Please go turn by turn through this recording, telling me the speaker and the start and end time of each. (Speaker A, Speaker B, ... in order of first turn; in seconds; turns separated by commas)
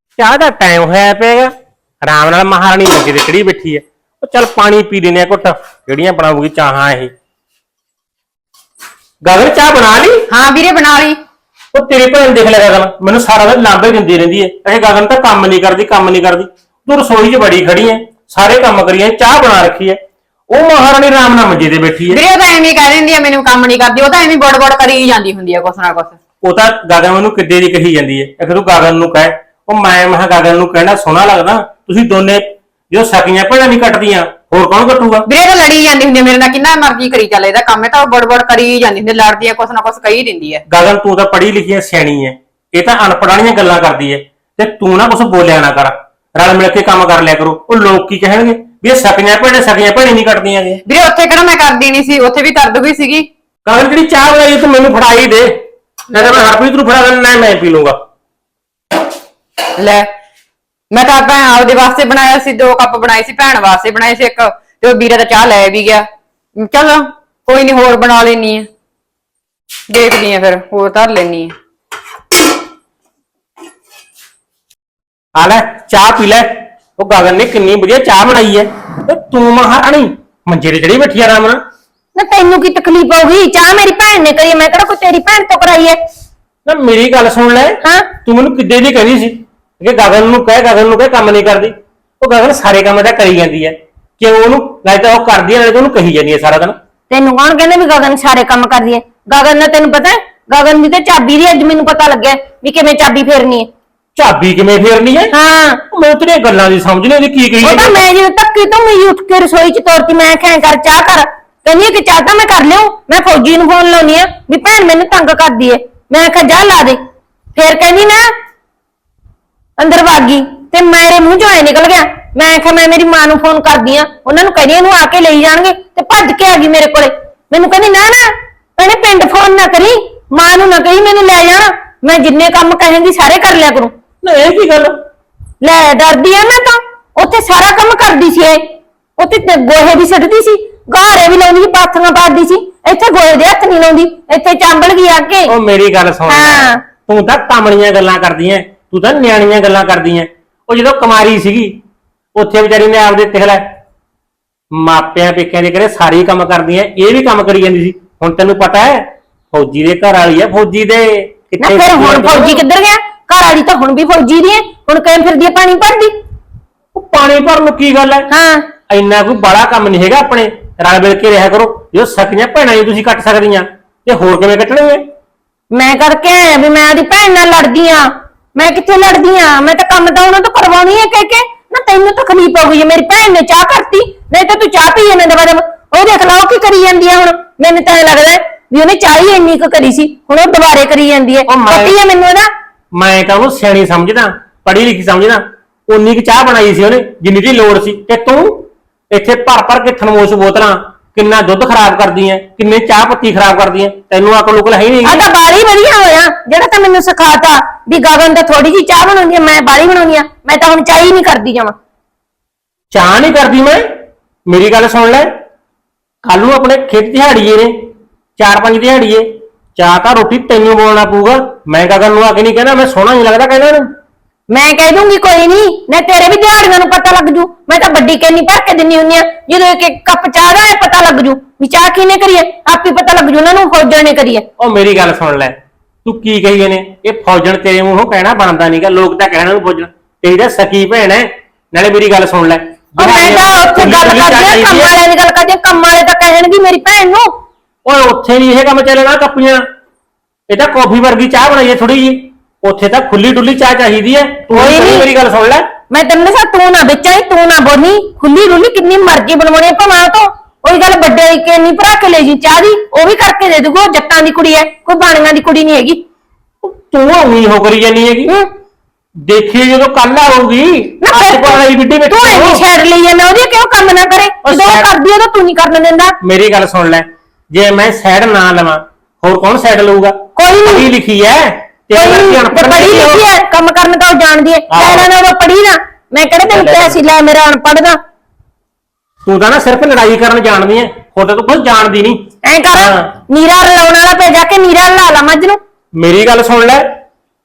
Speaker A: 0.2-1.5, Speaker A: 2.0-7.1, Speaker A: 9.2-10.3, Speaker B: 10.3-11.2, Speaker A: 11.7-20.0, Speaker A: 20.5-22.2, Speaker B: 22.1-26.2, Speaker A: 26.4-35.3, Speaker B: 35.3-40.6, Speaker A: 40.7-50.8, Speaker B: 50.9-53.3, Speaker A: 53.6-55.6, Speaker A: 56.1-58.0, Speaker B: 56.2-56.5, Speaker B: 59.8-60.1, Speaker B: 60.9-66.1, Speaker B: 66.6-68.7, Speaker B: 69.9-71.5, Speaker A: 75.4-81.6, Speaker C: 82.2-86.0, Speaker A: 86.7-96.8, Speaker C: 87.8-88.1, Speaker C: 97.1-103.7, Speaker A: 104.2-105.3, Speaker C: 105.3-105.8, Speaker A: 105.9-108.0, Speaker C: 107.6-117.0, Speaker C: 117.5-118.3, Speaker C: 119.8-133.9, Speaker A: 134.2-135.0, Speaker C: 135.6-138.6, Speaker C: 139.2-145.5, Speaker A: 145.5-151.8, Speaker C: 146.3-146.8, Speaker A: 152.3-153.6, Speaker A: 154.7-162.6, Speaker C: 161.6-166.1, Speaker A: 166.9-168.3, Speaker C: 168.3-168.7, Speaker A: 168.9-175.1, Speaker C: 175.7-192.5, Speaker A: 191.5-192.0, Speaker A: 192.9-205.2, Speaker C: 205.0-211.7, Speaker A: 212.9-213.8, Speaker A: 214.5-215.3, Speaker A: 216.2-217.7, Speaker A: 218.4-223.9, Speaker C: 224.5-234.4, Speaker A: 234.6-244.9, Speaker C: 243.0-247.3, Speaker A: 247.8-249.6, Speaker A: 250.5-255.7, Speaker C: 254.5-255.1, Speaker C: 255.9-266.0, Speaker A: 266.6-268.3, Speaker A: 269.2-272.6, Speaker C: 271.0-276.1, Speaker A: 274.4-274.9, Speaker A: 276.2-283.2, Speaker C: 280.4-280.9, Speaker C: 281.9-288.0, Speaker A: 284.7-285.1, Speaker A: 286.5-287.0, Speaker A: 289.2-292.2, Speaker C: 292.4-295.6, Speaker A: 292.7-293.1, Speaker A: 296.0-296.9